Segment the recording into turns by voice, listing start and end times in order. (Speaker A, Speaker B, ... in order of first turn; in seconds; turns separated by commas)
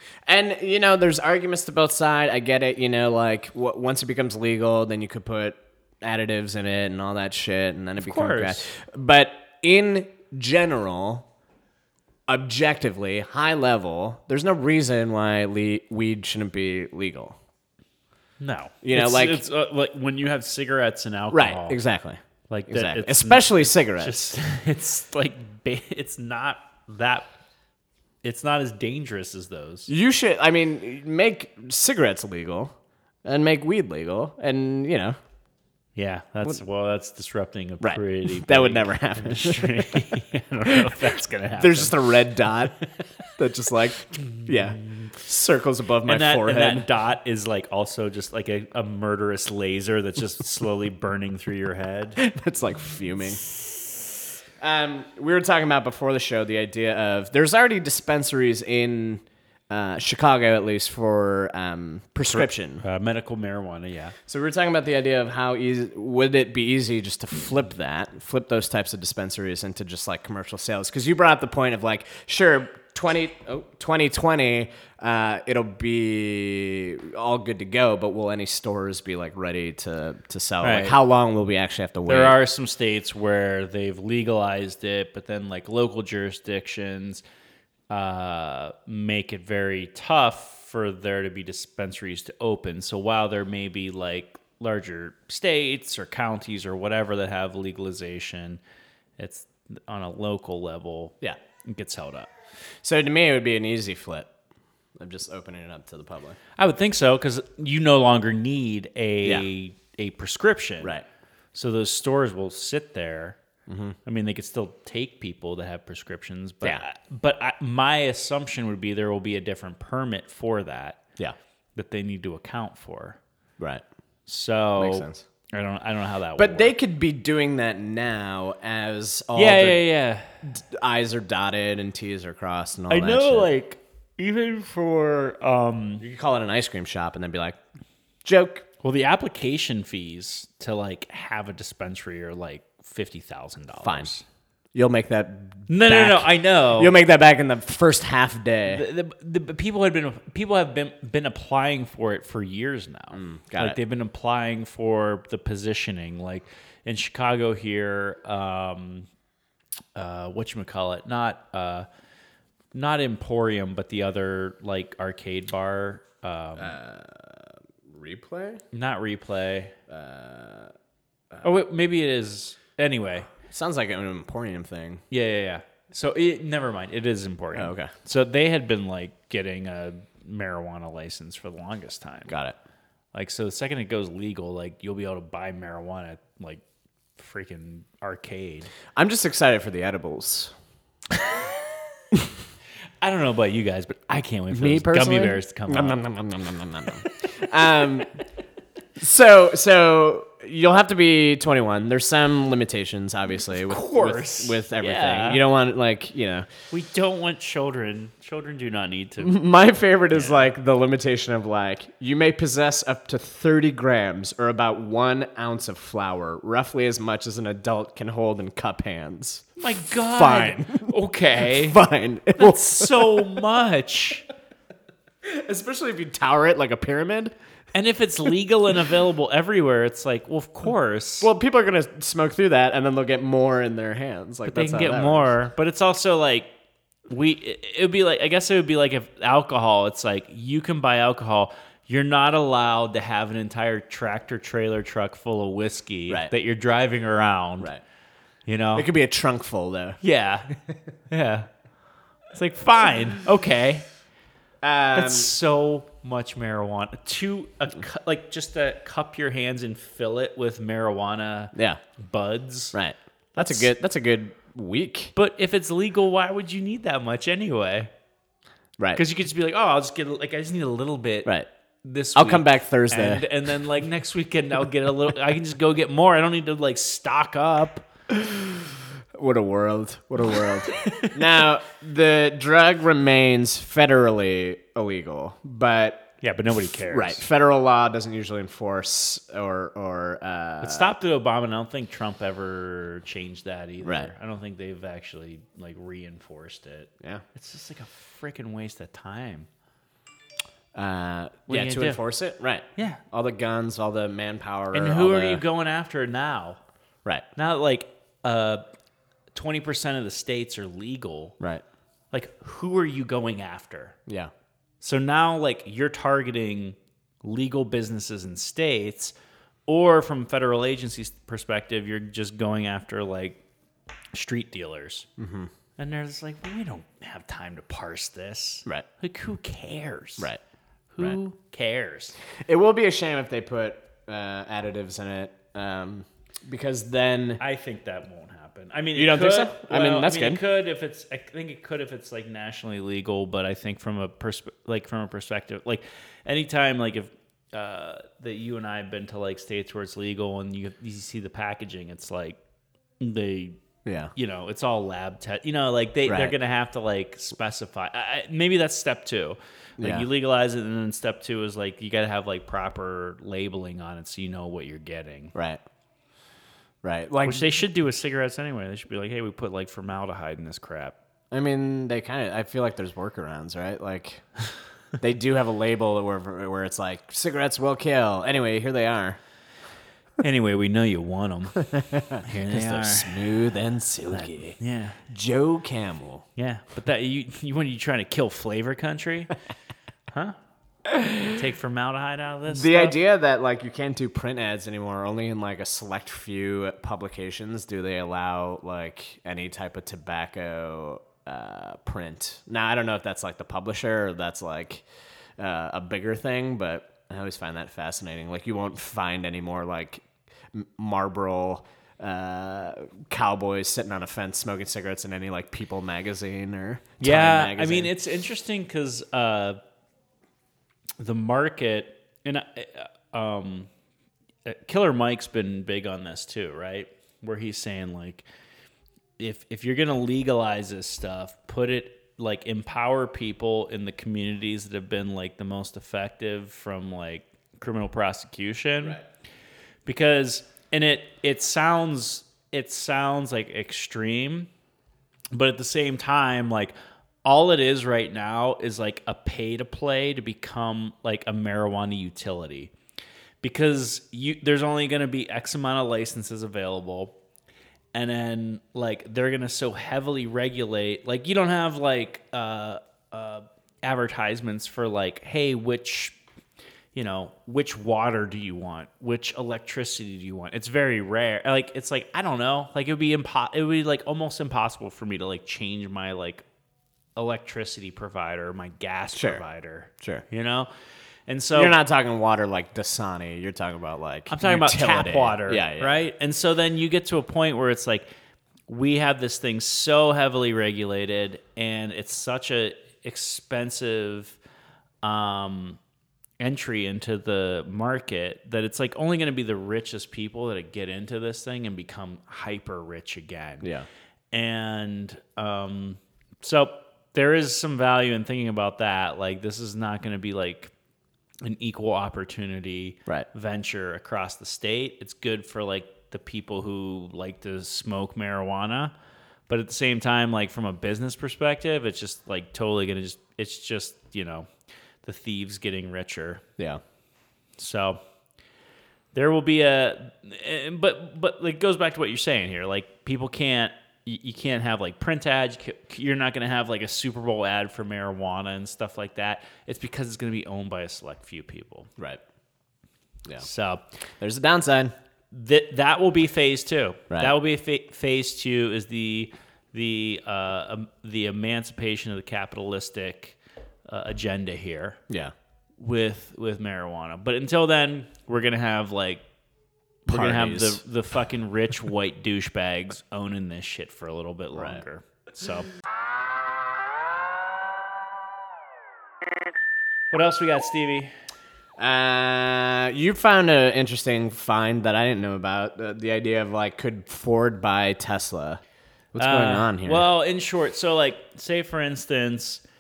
Speaker A: 0.3-11.3, Speaker B: 8.0-8.7, Speaker A: 12.3-17.4, Speaker B: 18.4-21.8, Speaker A: 18.8-19.4, Speaker A: 21.3-24.2, Speaker B: 22.5-27.3, Speaker B: 28.2-29.9, Speaker A: 29.9-32.7, Speaker A: 33.2-35.2, Speaker B: 36.0-42.0, Speaker A: 37.8-40.1, Speaker A: 40.7-41.0, Speaker A: 41.5-46.9, Speaker B: 44.5-44.8, Speaker B: 46.0-52.2, Speaker A: 52.2-53.5, Speaker A: 54.6-62.9, Speaker B: 62.3-64.2, Speaker A: 64.3-82.4, Speaker B: 80.6-81.0, Speaker B: 82.1-87.2, Speaker B: 87.9-98.6, Speaker B: 99.2-102.3, Speaker A: 102.8-104.3, Speaker A: 105.0-106.4, Speaker B: 106.6-110.9, Speaker B: 111.5-113.4, Speaker A: 113.7-114.0, Speaker B: 114.1-121.0, Speaker B: 121.8-123.2, Speaker B: 124.3-126.7, Speaker A: 124.8-125.2, Speaker A: 126.4-129.8, Speaker B: 129.3-130.3, Speaker A: 130.4-133.5, Speaker B: 132.9-136.0, Speaker A: 136.0-137.6, Speaker A: 138.2-138.7, Speaker B: 138.8-144.2, Speaker A: 143.8-144.1, Speaker A: 144.8-148.8, Speaker B: 145.7-146.9, Speaker B: 148.7-159.1, Speaker A: 153.1-153.8, Speaker B: 159.9-161.9, Speaker B: 162.7-166.8, Speaker A: 166.6-168.6, Speaker B: 168.7-169.7, Speaker A: 169.9-170.7, Speaker B: 171.4-173.3, Speaker A: 173.5-175.0, Speaker B: 175.1-182.3, Speaker A: 177.5-177.9, Speaker A: 182.3-182.6, Speaker B: 183.1-186.6, Speaker B: 187.2-188.7, Speaker A: 188.9-190.5, Speaker B: 193.0-196.0, Speaker A: 194.5-198.2, Speaker A: 199.0-206.5, Speaker B: 203.5-205.4, Speaker B: 206.7-209.3, Speaker A: 209.2-223.4, Speaker B: 210.1-210.5, Speaker B: 219.6-221.8, Speaker B: 222.4-224.2, Speaker A: 225.2-227.3, Speaker B: 227.7-231.3, Speaker A: 231.2-235.3, Speaker B: 234.5-236.5, Speaker B: 237.1-247.7, Speaker B: 248.5-248.9, Speaker A: 248.8-250.0, Speaker B: 250.0-250.6, Speaker B: 251.1-251.5, Speaker B: 252.3-253.8, Speaker A: 254.6-255.3, Speaker B: 254.9-262.8, Speaker A: 261.5-261.8, Speaker A: 262.7-265.1, Speaker B: 263.4-263.7, Speaker B: 265.1-267.9, Speaker B: 269.0-271.3, Speaker B: 271.8-277.9, Speaker A: 272.1-273.3, Speaker A: 278.1-286.1, Speaker B: 280.4-281.4, Speaker B: 286.2-287.2, Speaker A: 286.9-290.9, Speaker B: 290.6-299.5, Speaker A: 293.8-294.1, Speaker A: 300.7-305.4, Speaker B: 301.5-302.0, Speaker B: 302.8-303.0, Speaker B: 304.7-306.6, Speaker B: 307.4-308.6, Speaker B: 309.3-311.4, Speaker B: 312.1-314.0, Speaker B: 314.8-319.1, Speaker B: 319.7-323.4, Speaker B: 324.1-325.1, Speaker A: 325.2-325.5, Speaker B: 325.8-330.3, Speaker B: 330.9-332.1, Speaker A: 332.5-337.4, Speaker B: 337.4-352.4, Speaker A: 338.9-340.4, Speaker B: 353.0-353.6, Speaker A: 353.9-354.1, Speaker B: 354.1-365.3, Speaker A: 356.1-356.4, Speaker A: 359.8-360.1, Speaker A: 365.4-365.6, Speaker A: 366.8-367.5, Speaker B: 367.2-371.0, Speaker A: 371.3-374.3, Speaker A: 375.0-379.2, Speaker B: 380.2-381.6, Speaker A: 381.7-384.6, Speaker B: 382.1-383.4, Speaker B: 384.1-385.0, Speaker A: 385.1-386.3, Speaker B: 386.4-389.3, Speaker B: 390.1-390.4, Speaker A: 390.9-391.4, Speaker B: 391.4-393.0, Speaker A: 392.5-404.8, Speaker A: 405.4-417.9, Speaker B: 417.0-419.6, Speaker B: 421.0-423.7, Speaker B: 424.4-428.3, Speaker B: 429.2-439.0, Speaker B: 439.9-444.5, Speaker B: 445.3-452.7, Speaker B: 453.4-457.2, Speaker B: 457.9-466.2, Speaker B: 466.9-476.4, Speaker B: 477.2-480.7, Speaker A: 479.1-479.4, Speaker B: 481.3-481.8, Speaker A: 481.5-486.0, Speaker B: 484.3-488.1, Speaker B: 488.7-494.4, Speaker B: 495.0-495.8, Speaker B: 496.4-503.7, Speaker A: 503.6-503.9, Speaker B: 504.3-510.7, Speaker B: 511.4-518.9, Speaker B: 519.5-524.5, Speaker B: 525.0-526.4, Speaker B: 527.6-528.0, Speaker B: 529.1-541.9, Speaker B: 543.4-543.8, Speaker A: 544.2-544.9, Speaker B: 545.3-553.4, Speaker B: 553.9-555.0, Speaker B: 555.8-559.2, Speaker B: 560.1-565.7, Speaker A: 560.1-560.8, Speaker A: 564.5-564.8, Speaker B: 570.1-571.1, Speaker A: 571.8-578.6, Speaker A: 579.1-580.1, Speaker B: 579.2-582.6